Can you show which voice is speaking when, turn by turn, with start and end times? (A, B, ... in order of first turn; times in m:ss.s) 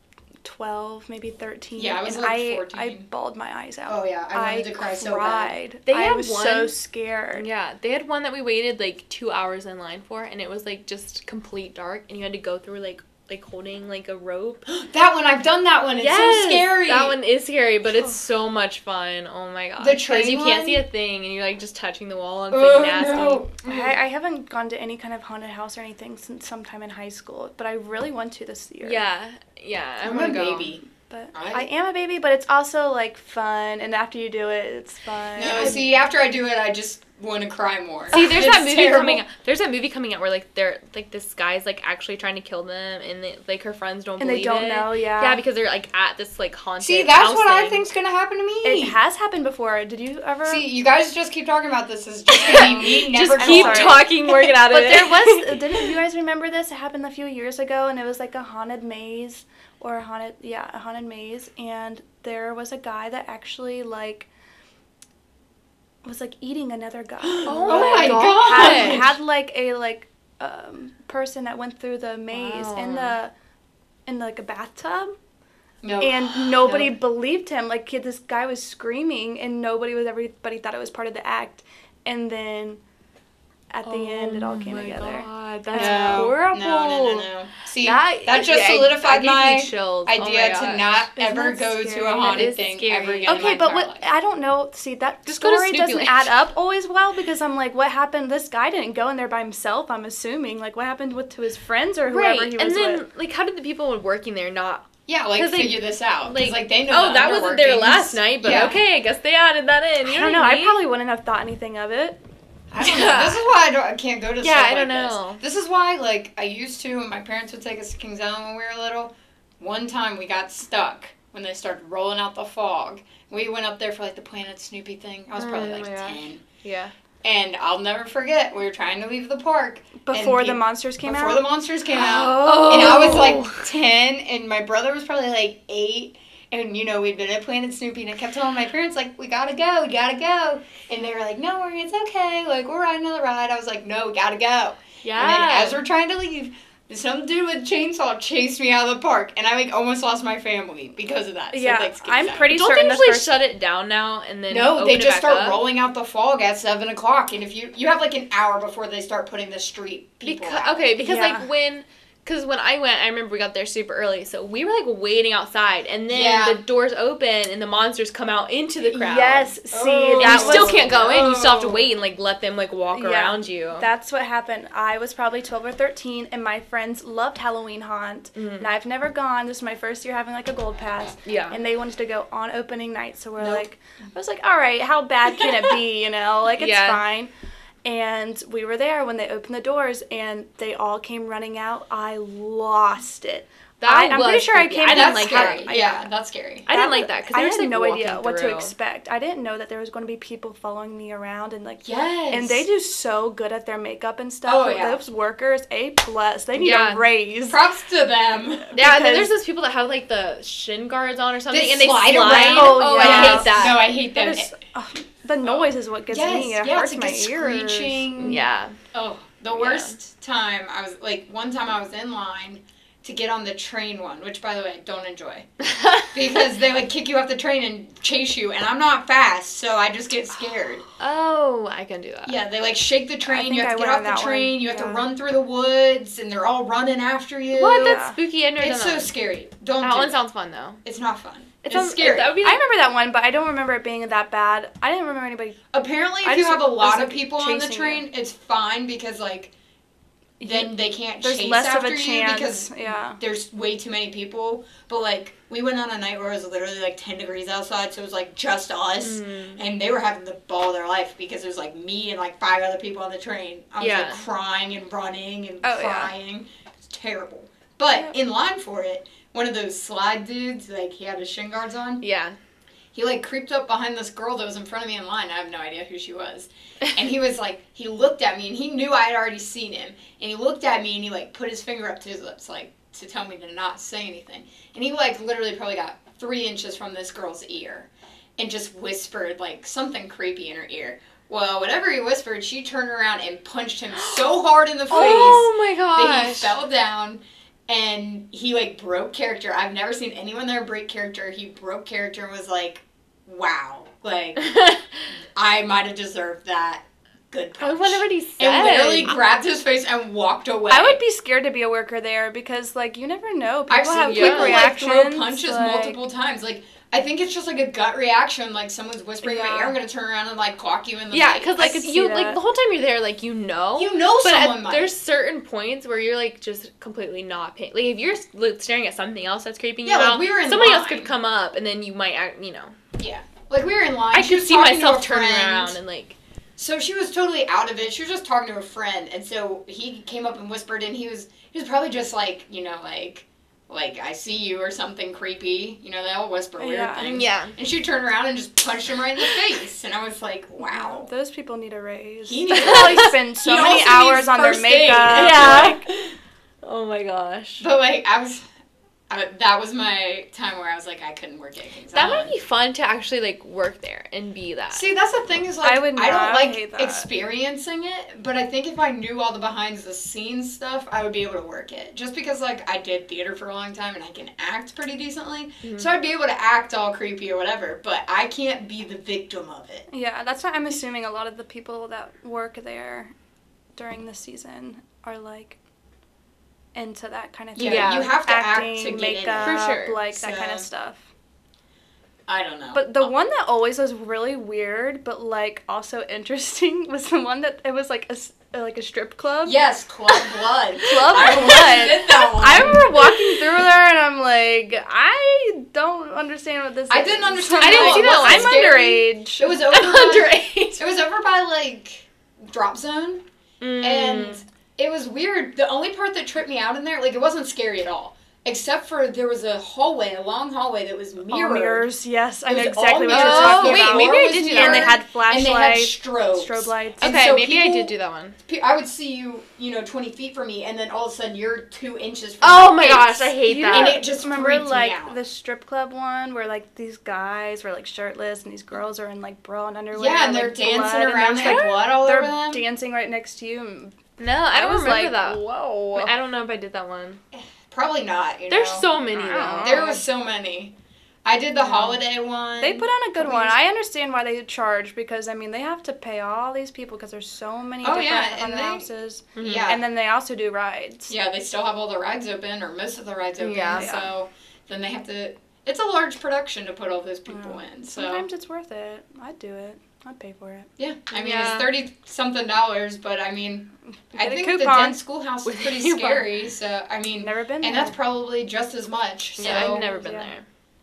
0:00.4-0:07.5 A
0:01.8-0:03.1 B
0:03.9-0:05.5 B
0:05.9-0:06.7 C
0:07.4-0:14.6 C
0:14.7-0:17.2 B
0:16.0-0:23.5 C
0:19.8-0:20.8 B
0:22.5-0:24.0 B
0:23.6-0:29.0 A
0:28.8-0:30.8 C
0:30.0-0:31.7 B
0:31.0-0:36.0 A
0:35.4-0:39.2 B
0:35.4-0:35.8 C
0:38.1-0:47.8 C
0:44.2-0:45.4 A
0:46.8-0:49.0 B
0:48.6-0:50.7 A
0:50.4-0:54.1 B
0:52.4-0:55.9 C
0:52.5-1:04.3 A
1:06.0-1:13.3 A
1:07.2-1:09.1 B
1:07.4-1:09.1 C
1:12.3-1:13.2 C
1:14.0-1:15.1 A
1:15.8-1:16.9 B
1:16.0-1:22.8 A
1:23.7-1:26.4 A
1:23.8-1:27.3 C
1:25.7-1:34.1 B
1:27.8-1:31.0 C
1:31.2-1:32.5 A
1:32.3-1:33.4 C
1:33.3-1:43.0 A
1:35.2-1:36.3 C
1:42.1-1:50.8 C
1:45.1-1:48.8 B
1:50.0-1:52.2 A
1:52.7-2:06.4 B
1:52.8-1:53.4 C
1:54.4-1:55.4 C
2:05.4-2:06.9 C
2:07.2-2:32.5 B
2:10.0-2:11.4 A
2:11.9-2:13.6 C
2:12.3-2:13.5 A
2:25.0-2:25.8 C
2:31.5-2:33.4 A
2:32.5-2:35.7 C
2:34.5-2:40.9 B
2:40.2-2:49.6 C
2:41.0-2:41.5 A
2:46.1-2:46.6 B
2:48.9-2:51.0 A
2:49.7-2:51.8 B
2:50.1-2:53.8 C
2:52.9-3:07.3 A
2:58.4-2:58.7 C
3:01.2-3:01.6 C
3:03.4-3:03.6 B
3:06.6-3:07.0 C
3:07.8-3:16.0 A
3:13.8-3:16.0 C
3:14.9-3:16.7 B
3:16.7-3:18.7 C
3:16.7-3:27.6 A
3:21.8-3:22.6 B
3:24.4-3:25.0 B
3:26.6-3:27.0 C
3:27.5-3:28.7 B
3:28.7-3:29.3 A
3:28.7-3:33.9 C
3:31.5-3:34.5 B
3:32.2-3:38.3 A
3:35.4-3:45.5 B
3:38.2-3:38.8 C
3:39.5-3:40.0 C
3:45.6-3:46.1 C
3:46.1-3:50.8 B
3:51.0-3:52.4 C
3:52.2-3:58.0 B
3:53.2-3:55.0 A
3:57.5-3:59.1 C
3:57.7-3:58.2 A
3:58.6-4:00.2 B
3:59.8-4:00.8 C
4:00.8-4:02.4 B
4:01.6-4:02.6 C
4:02.4-4:05.6 A
4:05.7-4:09.5 B
4:06.2-4:08.0 A
4:10.4-4:13.2 A
4:10.4-4:32.0 B
4:19.0-4:19.6 C
4:23.8-4:24.2 C
4:25.6-4:26.1 A
4:32.0-4:32.4 C
4:32.9-5:04.5 B
4:54.9-4:56.6 C
5:04.4-5:05.0 C
5:05.3-5:11.0 B
5:07.6-5:09.1 C
5:10.7-5:16.0 A
5:13.7-5:21.6 B
5:14.1-5:14.7 C
5:19.2-5:19.8 A
5:21.1-5:32.8 C
5:21.6-5:22.4 A
5:23.8-5:24.9 B
5:29.8-5:31.1 B
5:33.0-5:35.8 B
5:34.1-5:36.2 C
5:36.6-5:51.1 B
5:46.6-5:47.1 A
5:47.0-5:47.5 C
5:50.6-5:55.9 A
5:52.2-5:56.1 B
5:52.6-5:53.0 C
5:55.1-5:55.8 C
5:56.6-5:57.6 C
5:57.6-5:58.4 B
5:59.1-6:02.4 B
6:01.9-6:04.8 C
6:04.7-6:19.9 B
6:05.6-6:07.1 A
6:15.6-6:15.9 C
6:19.9-6:23.1 A
6:23.7-6:25.6 A
6:26.7-6:31.1 A
6:27.6-6:30.7 B
6:27.6-6:28.1 C
6:29.4-6:30.0 C
6:32.3-6:33.0 B
6:32.7-6:39.6 A
6:39.4-6:42.8 B
6:40.8-6:49.6 A
6:46.9-6:53.2 B
6:47.6-6:48.6 C
6:49.7-6:50.8 C
6:53.6-6:54.4 C
6:53.8-7:01.9 B
7:01.3-7:07.1 A
7:02.5-7:07.9 B
7:03.1-7:05.0 C
7:07.0-7:08.4 C
7:08.4-7:15.2 B
7:12.4-7:14.0 C
7:13.4-7:24.0 A
7:19.9-7:22.6 B
7:21.4-7:21.8 C
7:24.2-7:27.2 C
7:24.5-7:26.1 A
7:27.3-7:28.9 B
7:28.5-7:30.0 C
7:29.1-7:30.0 A
7:29.6-7:30.7 B
7:31.2-7:33.6 B
7:31.6-7:32.0 A
7:32.6-7:41.1 A
7:37.8-7:38.9 B
7:39.3-7:39.7 C
7:39.4-7:39.8 B
7:41.1-7:48.2 B
7:43.4-7:43.9 C
7:43.7-7:44.1 A
7:47.3-7:50.7 A
7:50.8-7:59.8 B
7:51.1-7:51.7 C
7:54.1-7:55.0 A
7:55.4-7:56.3 C
7:57.2-7:58.0 A
7:59.4-8:00.4 C
7:59.4-8:00.3 A